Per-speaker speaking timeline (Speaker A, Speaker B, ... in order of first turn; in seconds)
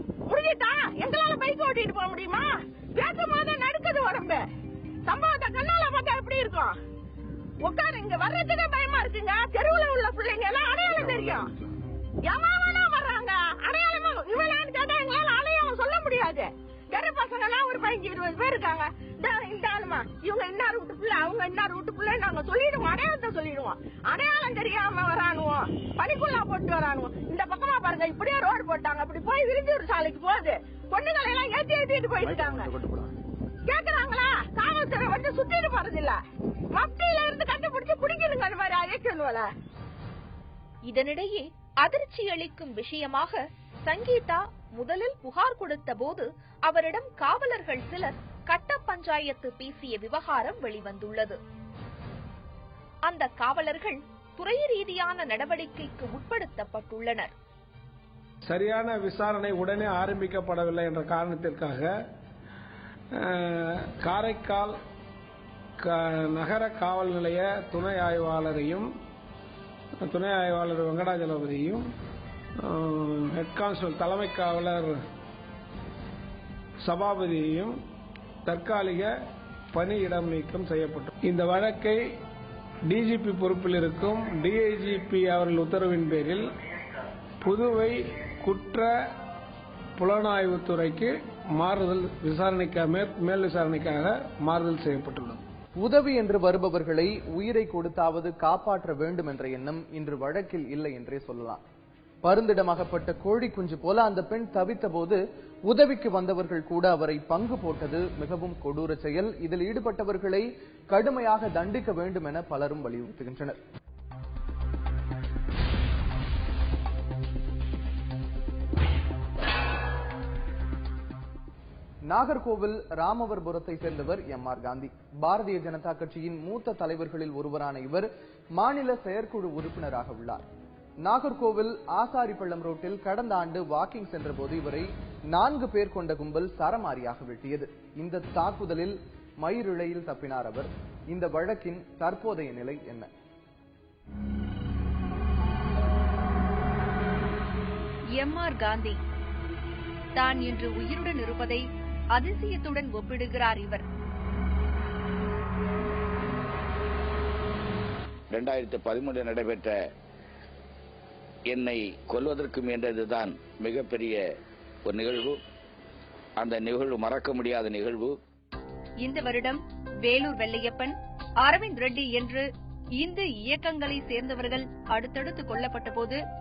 Speaker A: 0.2-4.5, 5.0-6.8, 7.6-11.5, 12.2-32.7, 33.6-39.5
Speaker B: 40.9-51.4, 53.1-57.3
Speaker C: 58.4-61.9, 63.2-64.8, 65.8-68.9, 70.1-71.9, 72.7-75.0, 76.8-77.8, 78.4-79.1, 79.7-82.0, 82.9-86.5, 87.4-88.9, 90.0-95.4
Speaker D: 95.8-101.6, 102.2-113.6, 122.1-130.4, 131.0-143.1
Speaker E: 148.2-149.0, 150.2-151.6, 152.2-153.8, 169.0-170.9, 171.4-172.4, 173.0-176.2
Speaker F: 158.3-159.7, 161.5-164.2, 164.9-165.4, 166.4-168.1